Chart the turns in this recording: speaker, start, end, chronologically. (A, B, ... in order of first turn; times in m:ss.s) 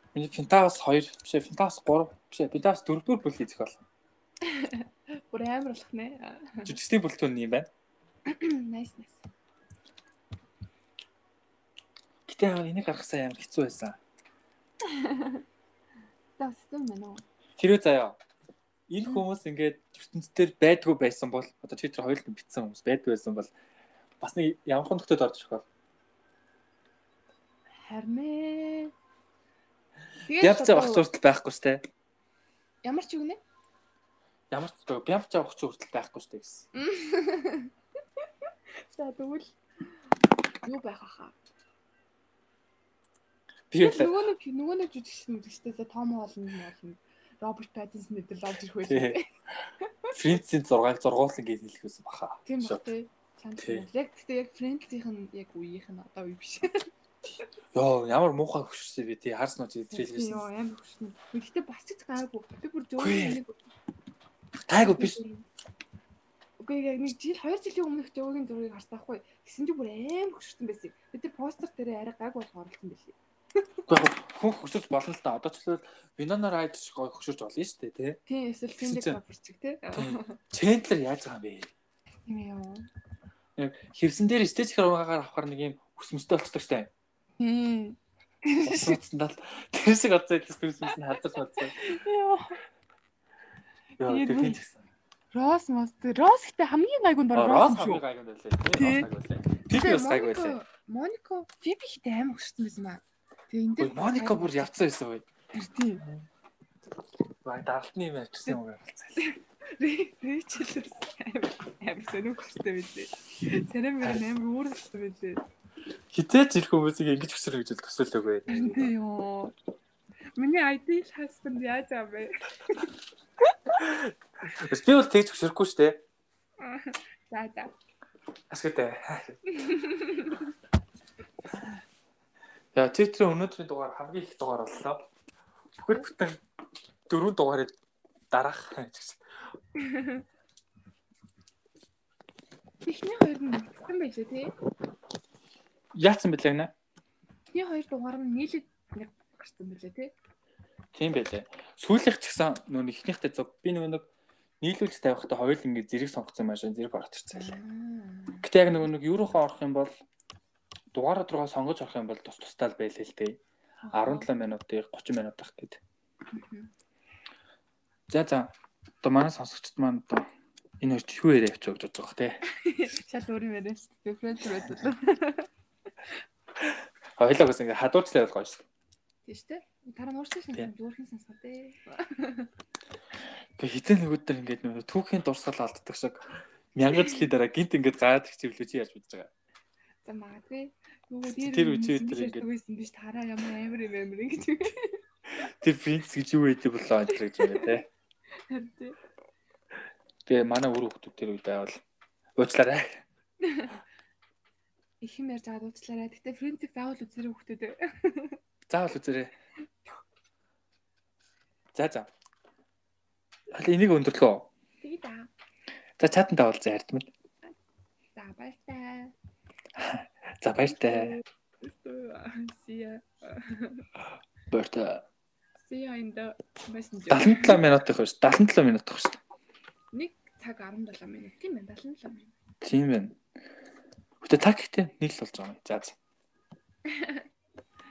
0:00.1-0:03.8 A
0:04.4-0:06.8 B
0:06.6-0:07.7 A
0:08.3-0:09.2 B
0:12.2-0:14.0 A
0:14.8-0:15.4 B
0:16.4-0:17.2 B
0:17.6-0:18.2 A
0:18.9-0:23.5 A
0:24.2-0:25.6 A
0:27.8-0:28.9 B
0:30.2-0:31.1 B
0:30.4-0:31.8 A
0:32.8-0:33.4 B
0:34.5-0:36.7 A
0:36.7-0:37.7 B
0:38.8-0:39.6 B
0:40.6-0:41.4 B
0:43.7-0:44.2 A
0:43.8-0:49.2 B
0:48.8-0:49.2 A
0:49.8-0:50.1 B
0:50.1-0:52.8 A
0:52.4-0:56.8 B
0:53.6-0:53.8 A
0:57.7-1:00.5 A
0:59.9-1:03.6 B
1:03.0-1:03.4 A
1:04.7-1:05.2 A
1:04.8-1:05.4 B
1:06.6-1:13.2 B
1:13.9-1:18.2 A
1:18.3-1:20.4 B
1:18.8-1:19.2 A
1:19.9-1:21.7 A
1:22.3-1:22.8 B
1:23.6-1:26.9 A
1:27.4-1:29.0 B
1:28.6-1:31.8 A
1:31.2-1:32.6 B
1:34.0-1:34.8 A
1:34.0-1:34.6 B
1:35.3-1:38.0 B
1:37.3-1:40.6 A
1:38.7-1:39.1 B
1:39.7-1:44.7 B
1:43.8-1:45.3 A
1:45.5-1:46.1 B
1:47.4-1:49.2 A
1:49.2-1:55.4 B
1:56.1-1:58.9 A
1:58.5-1:59.5 B
2:00.4-2:02.9 B
2:03.8-2:06.0 A
2:06.6-2:07.7 B
2:08.5-2:09.4 A
2:09.5-2:10.5 B
2:12.7-2:15.1 A
2:15.8-2:16.4 A
2:17.1-2:17.7 A
2:18.3-2:19.2 A
2:19.8-2:20.2 B
2:22.8-2:24.5 B
2:25.9-2:26.7 A
2:27.5-2:30.1 B
2:30.9-2:34.1 A
2:34.6-2:37.5 A
2:37.3-2:38.9 B
2:38.4-2:39.9 A
2:40.9-2:43.4 A
2:43.8-2:44.3 B
2:43.9-2:45.8 A
2:46.3-2:46.7 B
2:48.1-2:50.3 A
2:50.8-2:52.4 A
2:52.5-2:55.5 B
2:57.2-2:58.6 A
2:59.2-3:02.5 B
3:03.6-3:09.3 A
3:10.0-3:15.0 B
3:11.2-3:12.4 A
3:15.4-3:17.9 A
3:17.1-3:17.8 B
3:18.5-3:19.0 B
3:20.2-3:21.8 A
3:22.4-3:23.0 A
3:23.4-3:23.8 B
3:25.0-3:28.4 B
3:28.7-3:29.3 A
3:31.7-3:32.1 A
3:33.5-3:34.5 A
3:34.8-3:35.3 B
3:36.0-3:37.1 A
3:38.1-3:39.1 B
3:39.8-3:41.1 A
3:40.6-3:43.8 B
3:44.5-3:45.0 A
3:45.6-3:47.6 B
3:47.1-3:49.2 A
3:49.9-3:52.3 B
3:52.6-3:53.2 A
3:54.2-3:56.0 A
3:56.9-3:57.2 B